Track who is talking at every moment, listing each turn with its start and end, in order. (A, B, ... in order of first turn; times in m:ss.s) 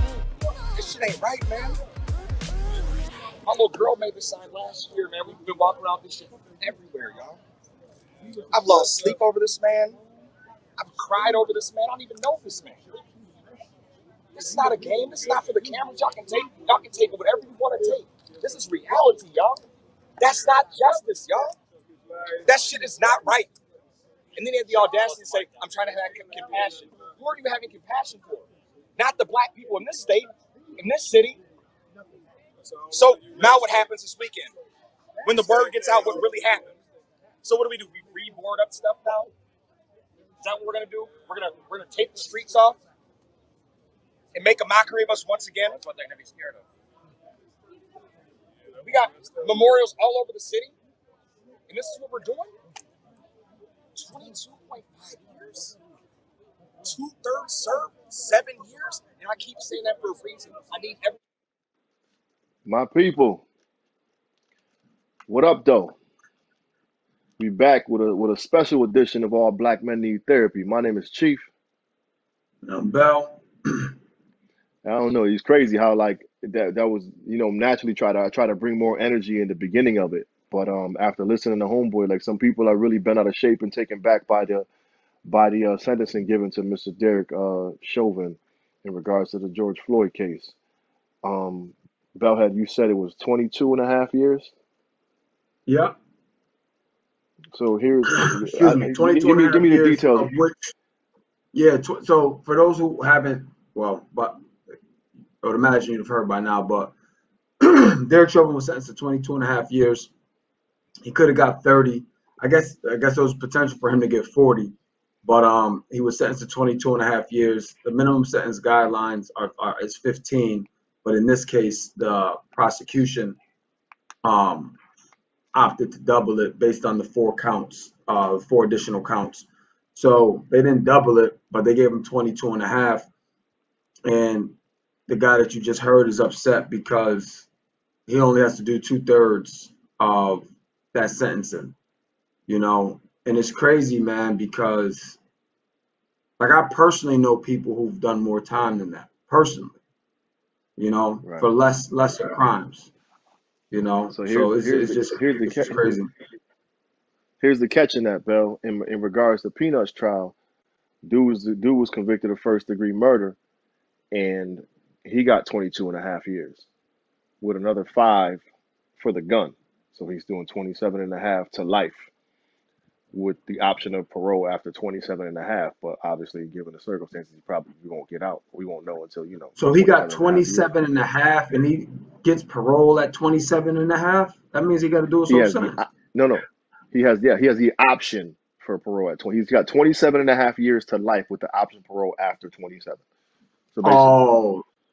0:00.7-0:01.8 A
0:03.4-0:07.4 A
0:08.5-0:10.0 A
0:10.8-0:12.8 A
0:14.3-0:19.6 A
0:20.2-0:21.6 A
0:22.4-0:23.5 A
0:24.4-0:31.4 A
0:32.9-0:34.5 A
0:35.2-0:36.8 A
0:37.4-0:39.3 A
0:40.4-0:42.8 A
0:44.3-0:46.6 A
0:48.8-0:50.7 A
0:51.7-0:52.5 A
0:54.0-0:55.8 A
0:56.8-1:01.2 A
1:02.6-1:03.4 B
1:05.3-1:05.9 B
1:07.4-1:11.5 B
1:12.6-1:13.9 C
1:14.8-1:24.6 B
1:25.2-1:30.5 B
1:31.2-1:34.5 B
1:35.7-1:35.9 C
1:37.5-1:40.3 B
1:38.1-1:40.7 C
1:41.5-1:44.4 C
1:45.4-1:46.9 C
1:47.6-1:50.1 C
1:51.0-2:03.4 C
2:04.2-2:04.8 C
2:05.5-2:13.1 C
2:14.0-2:14.5 C
2:15.1-2:17.5 C
2:18.1-2:21.8 C
2:22.5-2:25.2 C
2:26.4-2:29.8 C
2:30.8-2:32.9 C
2:33.7-2:36.1 C
2:34.1-2:36.0 B
2:37.4-2:40.3 B
2:41.0-2:43.4 B
2:44.1-2:46.6 B
2:47.4-2:48.4 B
2:49.0-2:52.1 B
2:53.1-3:00.7 B
2:59.6-3:05.8 C
3:05.3-3:13.0 B
3:13.7-3:14.1 B
3:13.8-3:14.6 C